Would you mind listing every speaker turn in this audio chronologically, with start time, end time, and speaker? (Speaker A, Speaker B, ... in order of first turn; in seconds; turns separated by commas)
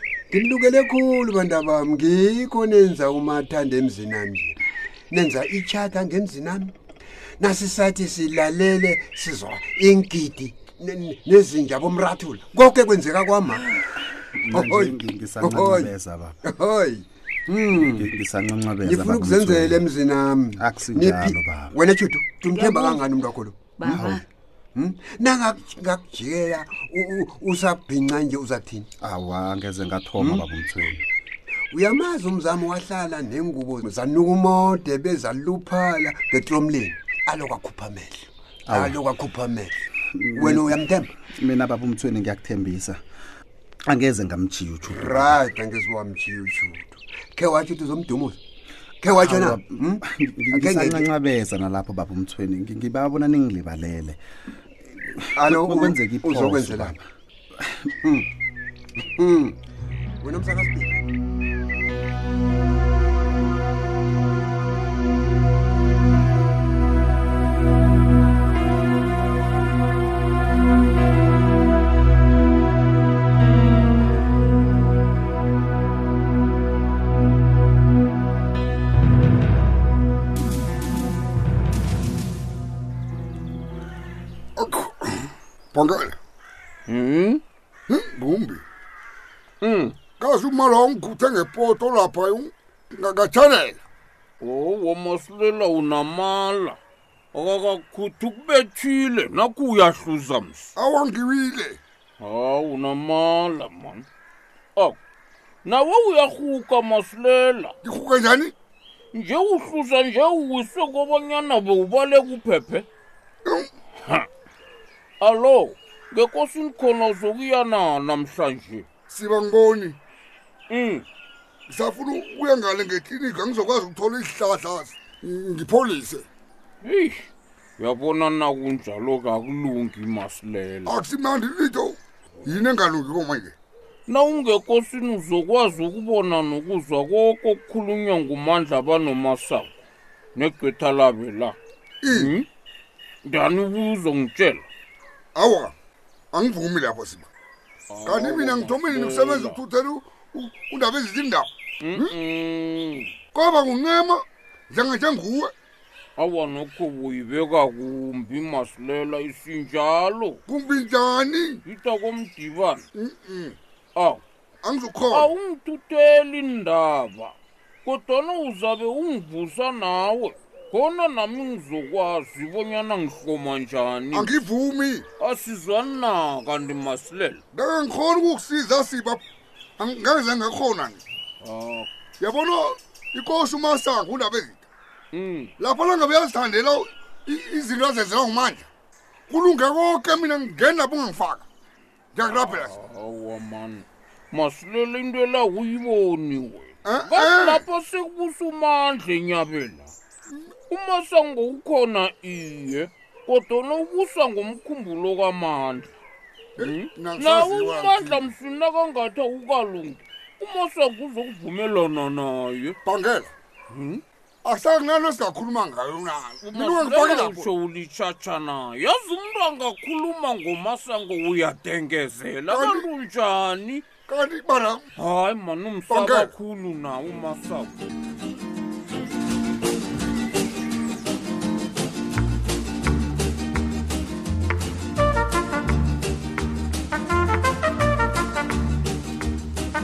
Speaker A: 0.3-4.6, Speaker A: 5.1-6.7, Speaker A: 7.4-13.8, Speaker B: 14.4-16.4, Speaker A: 14.5-15.9, Speaker A: 16.4-18.1, Speaker B: 17.8-19.8, Speaker A: 18.8-24.1, Speaker B: 20.6-21.7, Speaker B: 23.9-24.2, Speaker A: 24.7-28.9, Speaker B: 29.0-31.0, Speaker A: 30.2-30.4, Speaker A: 31.7-39.7, Speaker B: 38.7-39.0, Speaker B: 40.1-43.0, Speaker A: 40.4-41.1, Speaker B: 43.9-45.4, Speaker A: 44.9-48.4, Speaker A: 49.0-51.0, Speaker B: 49.0-54.2, Speaker B: 54.9-57.0, Speaker A: 55.3-56.9, Speaker B: 57.6-57.9, Speaker A: 59.0-59.6, Speaker A: 60.2-60.9, Speaker C: 84.6-86.2, Speaker D: 86.9-87.4, Speaker C: 87.9-88.6, Speaker D: 89.6-89.9, Speaker C: 90.2-93.8, Speaker D: 94.4-96.8, Speaker D: 97.3-100.7, Speaker C: 100.8-101.8, Speaker D: 102.2-104.0, Speaker D: 105.6-107.7, Speaker C: 107.8-108.5, Speaker D: 109.1-112.9, Speaker D: 115.2-118.9, Speaker C: 119.1-120.0, Speaker D: 120.7-121.0, Speaker C: 121.7-126.2, Speaker D: 126.8-127.2, Speaker D: 127.8-130.9, Speaker C: 130.8-133.5, Speaker D: 134.1-139.8, Speaker D: 140.3-141.6, Speaker C: 142.0-142.3, Speaker D: 142.1-142.4, Speaker D: 143.2-144.6, Speaker C: 145.3-145.7, Speaker C: 146.3-147.3, Speaker D: 147.9-149.6, Speaker C: 148.0-152.1, Speaker D: 151.8-153.1, Speaker C: 153.3-155.5, Speaker D: 156.2-160.4, Speaker C: 160.5-161.6, Speaker D: 161.6-162.8, Speaker C: 162.9-163.6, Speaker D: 163.9-164.2, Speaker C: 164.6-165.3, Speaker D: 165.1-174.3, Speaker C: 174.1-175.0, Speaker D: 175.2-177.4, Speaker C: 177.5-179.2, Speaker C: 179.8-181.0, Speaker D: 181.4-181.9, Speaker C: 182.2-184.6, Speaker D: 185.1-185.5, Speaker C: 185.6-188.7, Speaker C: 189.3-191.4, Speaker C: 192.1-192.7, Speaker D: 192.3-199.9, Speaker C: 196.8-197.6, Speaker D: 200.7-205.9, Speaker D: 206.6-212.8, Speaker C: 206.6-208.2, Speaker C: 212.8-213.3, Speaker D: 213.7-214.0, Speaker C: 214.4-217.5, Speaker D: 216.5-223.8, Speaker C: 222.5-222.8, Speaker C: 224.1-224.8, Speaker D: 224.9-227.8, Speaker C: 225.9-226.3